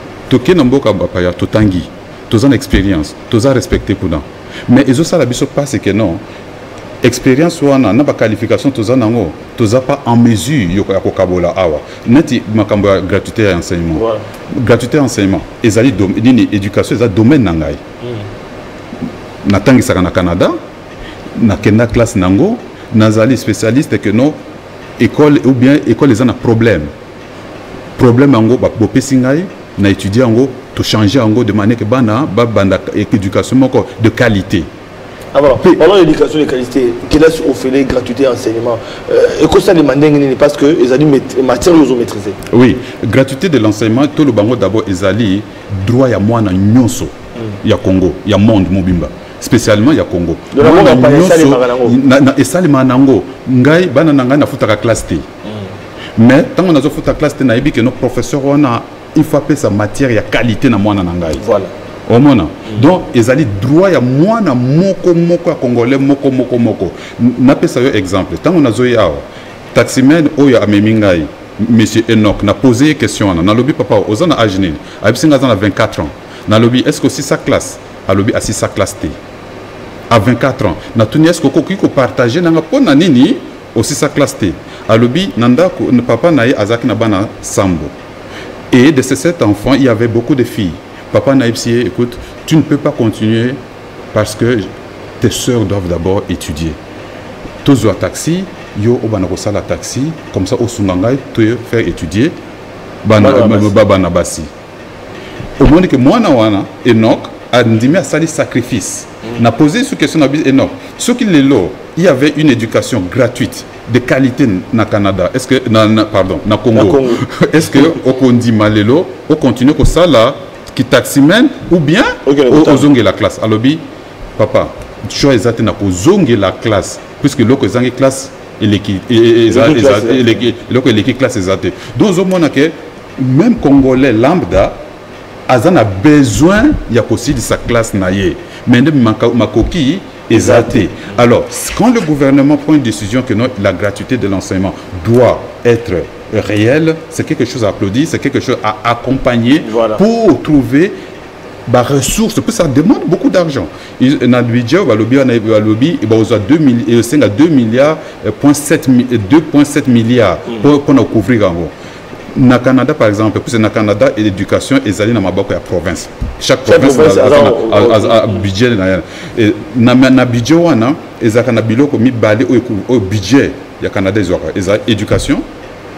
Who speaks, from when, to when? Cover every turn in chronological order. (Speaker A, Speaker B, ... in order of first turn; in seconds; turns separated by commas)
Speaker A: 0.3-6.2, Speaker A: 7.0-17.8, Speaker B: 13.9-14.2, Speaker A: 19.4-20.6, Speaker A: 21.4-24.4, Speaker A: 25.0-26.9, Speaker A: 28.0-34.7, Speaker B: 35.3-42.4, Speaker A: 42.5-55.3, Speaker B: 50.5-52.0, Speaker A: 56.2-61.4, Speaker B: 61.4-61.7, Speaker A: 62.1-79.2, Speaker A: 80.1-87.9, Speaker A: 88.7-93.6, Speaker A: 94.1-94.7, Speaker A: 95.2-96.8, Speaker A: 97.6-102.3, Speaker A: 103.0-104.5, Speaker B: 103.2-103.7, Speaker A: 105.6-123.8, Speaker B: 116.7-117.2, Speaker B: 122.3-122.9, Speaker A: 124.4-134.8, Speaker B: 129.5-130.5, Speaker A: 135.5-150.9, Speaker B: 140.3-140.9, Speaker B: 149.6-150.0, Speaker A: 151.7-161.7, Speaker A: 162.3-175.4, Speaker B: 166.7-168.3